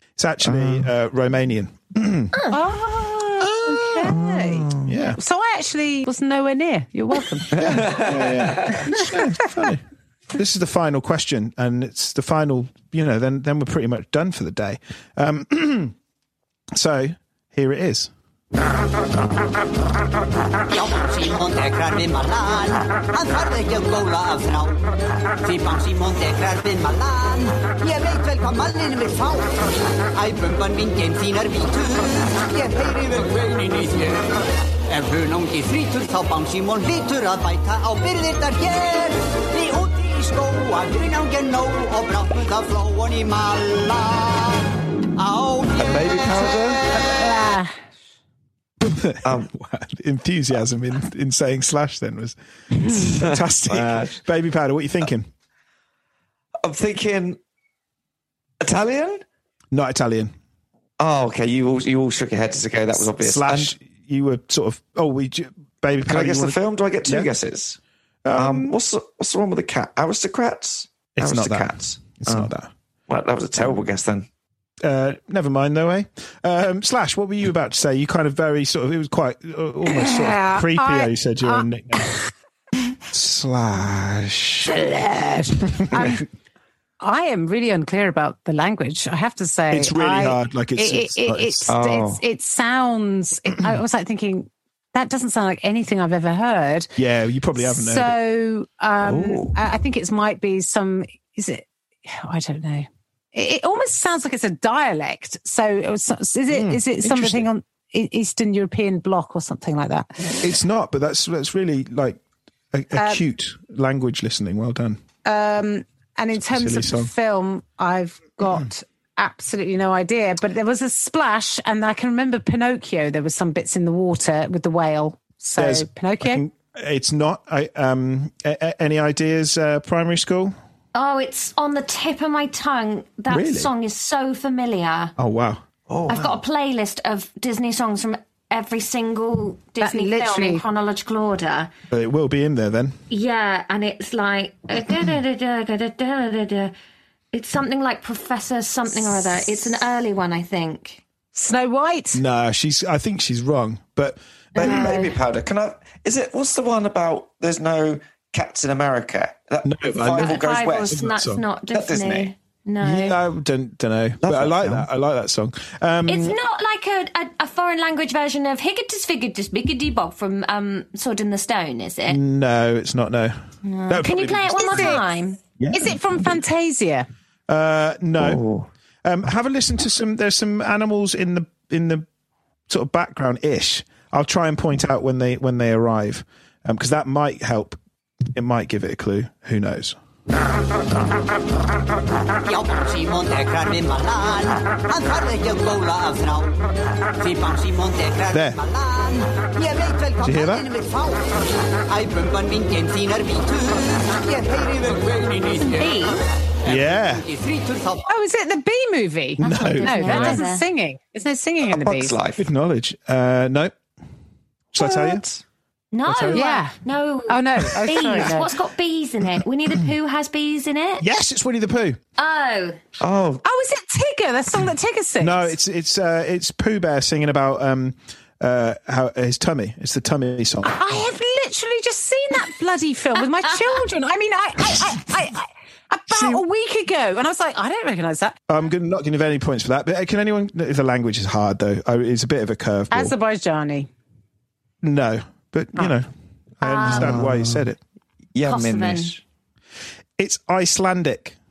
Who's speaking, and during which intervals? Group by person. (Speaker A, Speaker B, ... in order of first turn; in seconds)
Speaker A: 0.2-2.4, 3.4-4.2, 4.7-5.2, 7.5-15.9, 16.7-18.1, 48.8-55.3, 59.7-60.3, 63.2-67.3, 68.2-68.8, 71.2-72.7, 74.8-82.1, 83.1-84.8, 85.8-86.2, 89.7-91.7, 97.0-98.2, 106.5-107.5, 110.4-112.2, 112.7-115.0, 116.4-117.1, 125.6-130.6, 133.3-133.7, 135.2-136.3, 141.9-143.0, 152.1-154.9, 159.6-161.4, 162.8-166.4, 172.1-175.0, 175.6-176.0, 177.5-178.4, 179.0-182.1, 182.7-187.8, 188.3-190.0, 198.3-198.6, 200.2-200.7, 206.6-207.3, 209.4-210.4, 212.4-213.7, 214.7-215.2, 216.1-216.5, 221.0-222.0, 225.2-230.8, 236.1-236.4, 238.5-243.1, 244.8-246.1, 246.6-247.8, 250.2-251.4
Speaker B: 0.4-0.9, 4.0-4.8, 7.5-8.9, 45.8-46.8, 49.2-49.5, 53.0-54.2, 56.6-57.4, 58.6-59.2, 61.0-63.7, 66.0-67.8, 68.3-72.5, 73.1-74.3, 91.7-92.2, 99.0-99.6, 154.6-161.0, 161.7-162.3, 164.2-164.9, 178.2-178.7, 211.6-212.4, 223.0-223.4, 246.8-247.7, 248.3-249.2
Speaker C: 2.5-7.8, 46.9-47.8, 79.9-81.7, 84.7-86.2, 87.0-96.9, 97.6-110.4, 112.9-113.2, 115.2-126.4, 139.8-140.7, 151.3-152.2, 174.7-175.0, 175.7-177.1, 208.1-212.2, 216.3-216.7, 217.3-218.5, 223.4-225.6, 230.6-238.4, 242.9-243.9
Speaker D: 20.7-24.8, 25.4-46.1, 192.4-196.6, 197.2-208.1
Speaker E: 130.9-135.1, 136.1-141.7, 143.1-146.7, 147.3-151.0, 154.6-155.1, 160.2-163.2, 166.1-172.2, 173.7-175.4, 205.6-206.3, 209.4-210.7, 215.9-221.1, 222.2-222.8, 246.6-247.2, 248.5-249.1